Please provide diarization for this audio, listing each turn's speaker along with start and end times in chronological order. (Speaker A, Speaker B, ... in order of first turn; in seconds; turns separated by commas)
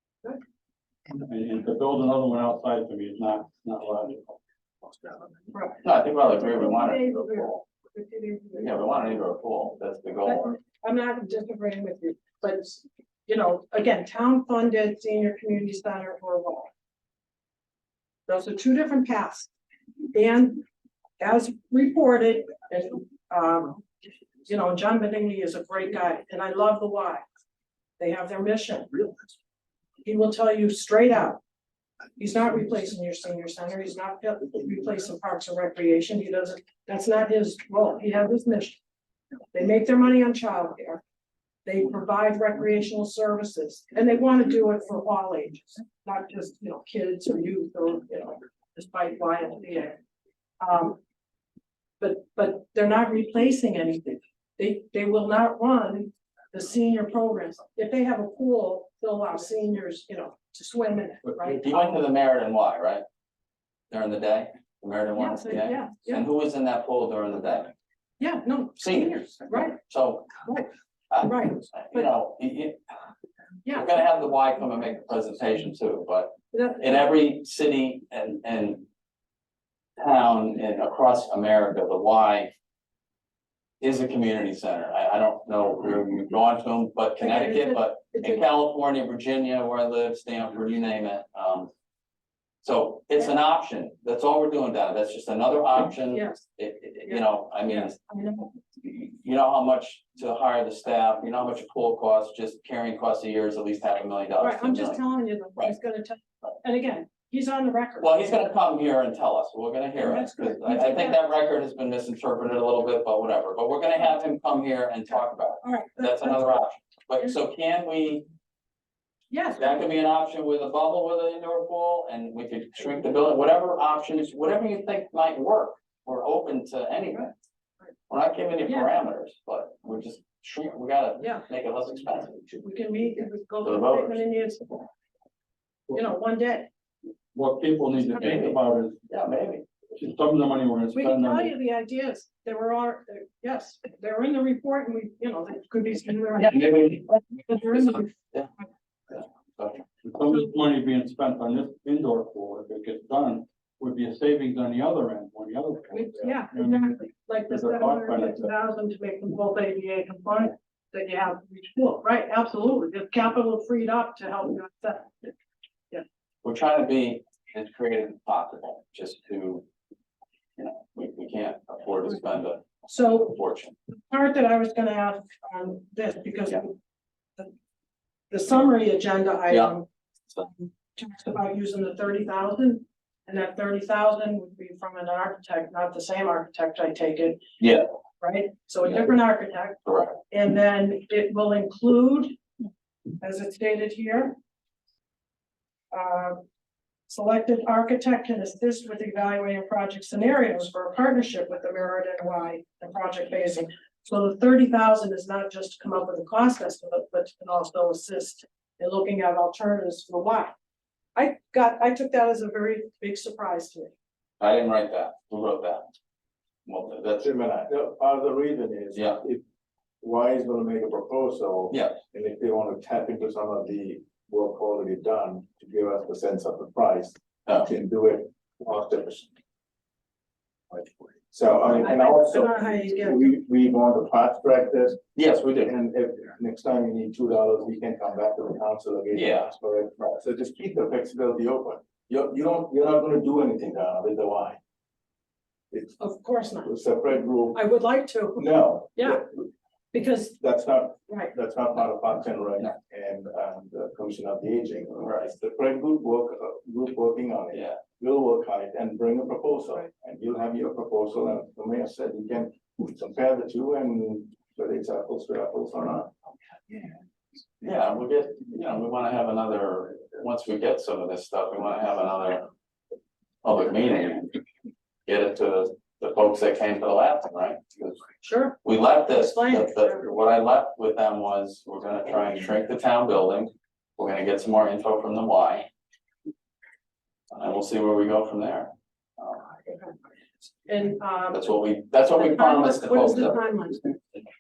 Speaker A: 1.2-4.4, Speaker B: 5.5-9.0, Speaker C: 5.8-7.6, Speaker C: 8.6-10.5, Speaker B: 10.2-16.7, Speaker B: 18.3-19.5, Speaker B: 20.1-20.6, Speaker B: 21.2-23.9, Speaker B: 24.5-27.2, Speaker B: 28.0-29.1, Speaker B: 30.0-31.4, Speaker B: 32.2-38.8, Speaker B: 39.5-41.0, Speaker B: 41.6-50.0, Speaker B: 50.6-51.0, Speaker B: 52.0-62.0, Speaker C: 61.5-63.0, Speaker C: 63.9-67.7, Speaker B: 65.1-66.3, Speaker B: 68.2-69.8, Speaker C: 68.8-70.3, Speaker C: 71.1-72.8, Speaker B: 71.2-72.1, Speaker B: 73.7-73.9, Speaker C: 73.7-78.9, Speaker B: 76.5-76.9, Speaker C: 80.0-82.5, Speaker C: 83.8-91.7, Speaker B: 87.2-88.4, Speaker C: 92.6-98.0, Speaker B: 96.0-96.5, Speaker B: 97.1-98.5, Speaker C: 98.8-105.0, Speaker B: 104.4-108.5, Speaker C: 108.0-118.3, Speaker B: 110.0-111.2, Speaker B: 115.1-116.5, Speaker B: 119.3-119.8, Speaker C: 119.6-127.3, Speaker C: 128.1-132.5, Speaker B: 128.7-128.9, Speaker B: 132.6-134.8, Speaker C: 133.6-134.2, Speaker B: 135.9-136.7, Speaker A: 137.3-139.0, Speaker C: 138.2-138.6, Speaker C: 139.1-139.7, Speaker A: 140.0-141.5, Speaker B: 140.9-148.1, Speaker C: 146.4-148.5, Speaker C: 149.1-149.8, Speaker A: 150.0-158.5, Speaker B: 155.9-165.3, Speaker C: 166.4-169.6, Speaker C: 170.6-172.6, Speaker B: 172.9-173.4, Speaker C: 173.2-173.8, Speaker B: 173.9-176.7, Speaker B: 178.3-179.9, Speaker B: 180.4-187.4, Speaker C: 187.6-187.8, Speaker B: 188.2-192.3, Speaker C: 189.9-190.2, Speaker B: 193.2-194.4, Speaker B: 195.9-196.4, Speaker B: 197.1-210.6, Speaker B: 211.2-213.9, Speaker C: 214.4-215.9, Speaker C: 216.7-217.3, Speaker D: 217.2-219.4, Speaker C: 218.9-219.2, Speaker D: 220.0-229.3, Speaker C: 221.7-222.0, Speaker D: 230.7-235.0, Speaker B: 231.8-233.3, Speaker C: 235.2-235.7, Speaker D: 235.6-244.6, Speaker C: 239.1-239.5, Speaker B: 246.0-246.7, Speaker D: 246.7-247.6, Speaker B: 247.5-249.2, Speaker D: 248.4-249.4, Speaker B: 249.9-250.4, Speaker D: 250.4-266.1, Speaker C: 255.0-255.3, Speaker C: 257.5-257.8, Speaker C: 267.6-272.5, Speaker C: 273.4-274.4, Speaker C: 275.1-278.1, Speaker B: 278.2-280.0, Speaker C: 278.6-285.7, Speaker C: 287.3-289.5, Speaker B: 290.7-291.5, Speaker C: 291.3-293.4, Speaker B: 292.1-294.0